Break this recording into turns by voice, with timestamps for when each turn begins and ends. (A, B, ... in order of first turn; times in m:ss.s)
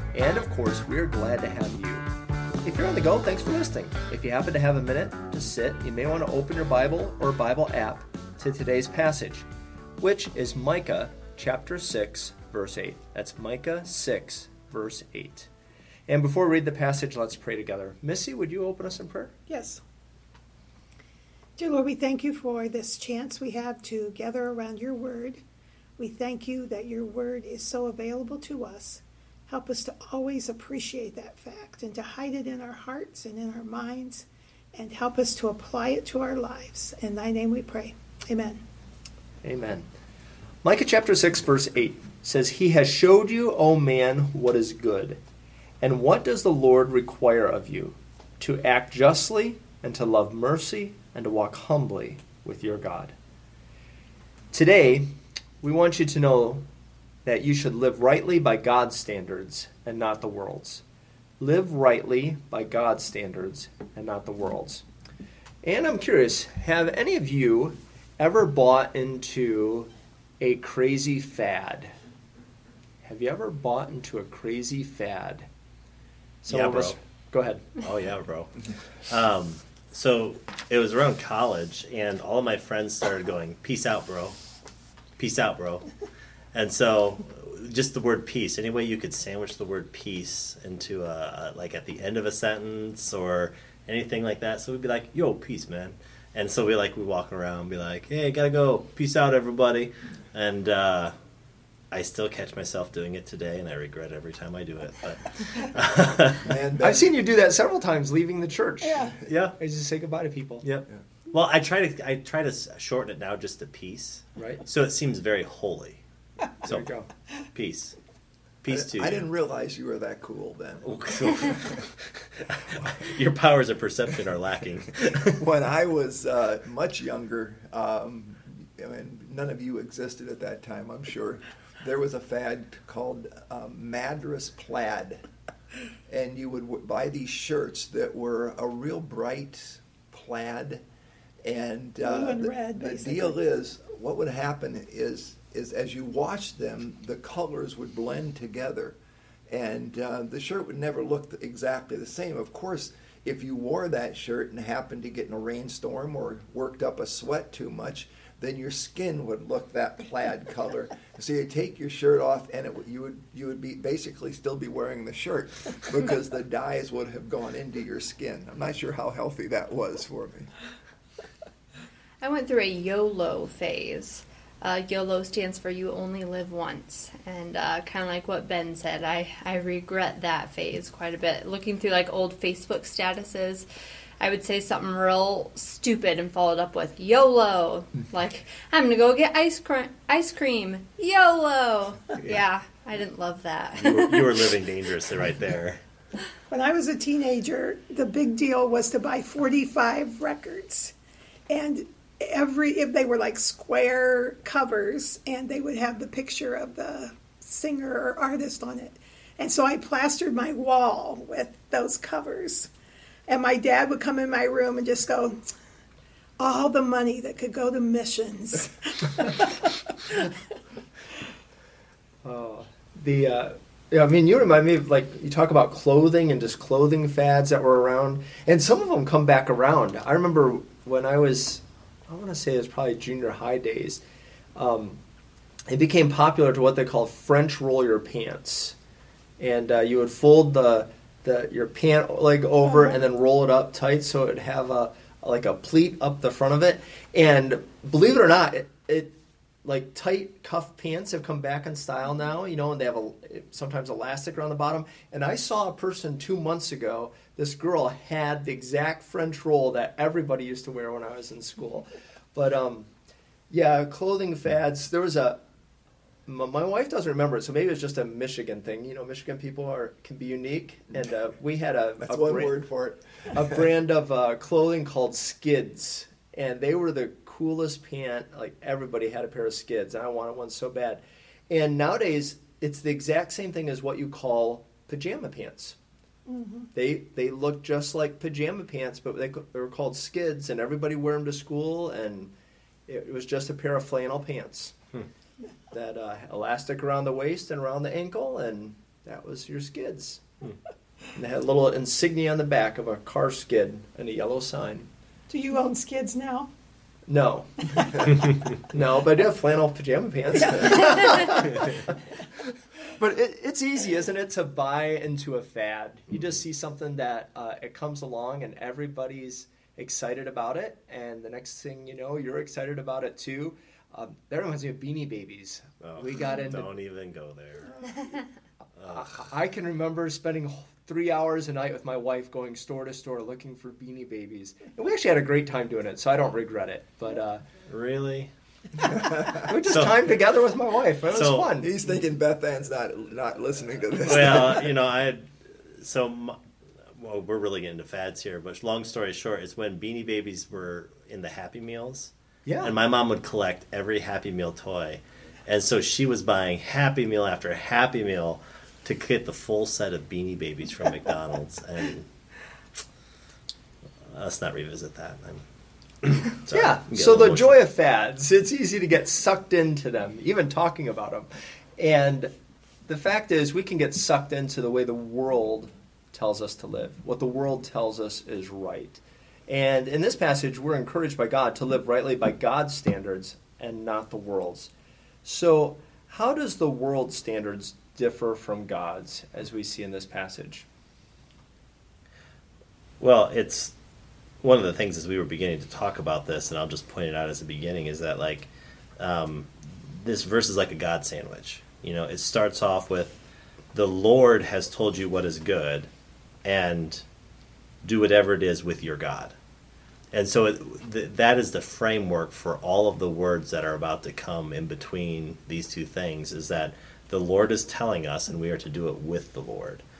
0:00.1-0:02.1 A
0:02.6-0:09.5 A
0:10.0-0:15.5 A
0:16.1-0:19.3 A
0:19.5-0:19.8 B
0:21.6-0:25.4 B
0:26.0-0:38.6 B
0:39.4-0:39.9 A
0:40.6-0:45.2 A
0:45.8-0:53.1 A
0:54.5-0:55.1 A
0:55.6-0:56.6 A
0:57.2-1:00.8 A
1:01.4-1:04.8 A
1:05.6-1:11.9 A
1:13.0-1:15.5 A
1:16.4-1:17.8 A
1:16.5-1:17.0 C
1:17.8-1:18.5 C
1:19.1-1:24.4 C
1:25.2-1:25.9 C
1:26.5-1:41.1 C
1:41.9-1:46.5 C
1:46.4-1:47.1 D
1:46.8-1:50.8 A
1:48.8-1:49.2 B
1:49.3-1:49.6 C
1:51.3-1:56.0 C
1:54.4-1:54.6 A
1:56.6-1:56.9 C
1:56.6-1:57.1 A
1:57.5-1:58.0 C
1:58.6-1:59.3 C
1:58.7-2:01.6 D
2:00.8-2:05.3 C
2:05.3-2:15.2 D
2:16.1-2:20.8 D
2:21.4-2:29.0 D
2:22.0-2:23.4 B
2:29.5-2:50.5 D
2:52.2-3:03.7 E
3:04.2-3:14.3 E
3:13.8-3:15.8 C
3:16.5-3:20.9 B
3:21.5-3:32.7 B
3:33.3-3:35.4 B
3:36.4-3:40.2 B
3:42.2-3:54.0 A
3:54.6-3:55.0 A
3:55.7-3:58.8 A
3:59.4-4:22.9 A
4:02.7-4:02.9 B
4:23.5-4:25.4 A
4:26.2-4:32.6 A
4:32.0-4:33.2 D
4:33.3-4:45.8 A
4:46.3-4:46.7 B
4:46.7-4:52.3 A
4:52.9-4:54.8 A
4:55.7-5:00.3 A
5:01.1-5:04.9 A
5:05.3-5:06.5 B
5:07.1-5:07.5 A
5:07.6-5:08.1 B
5:08.7-5:11.9 A
5:10.3-5:11.4 B
5:13.0-5:26.7 A
5:25.8-5:28.1 C
5:28.8-5:29.2 C
5:28.9-5:37.5 A
5:37.7-5:38.3 C
5:38.9-5:39.4 D
5:39.4-5:41.8 A
5:39.7-5:40.1 C
5:41.1-5:41.6 C
5:41.6-5:44.7 D
5:44.0-5:46.4 C
5:46.9-6:02.1 C
5:52.4-5:52.7 A
6:04.1-6:05.4 C
6:06.0-6:07.6 C
6:06.5-6:12.3 A
6:12.9-6:24.7 A
6:25.2-6:30.7 A
6:33.0-6:33.7 C
6:34.4-6:43.2 C
6:43.7-6:45.9 C
6:46.4-6:47.0 C
6:47.8-6:49.4 C
6:50.1-6:59.8 C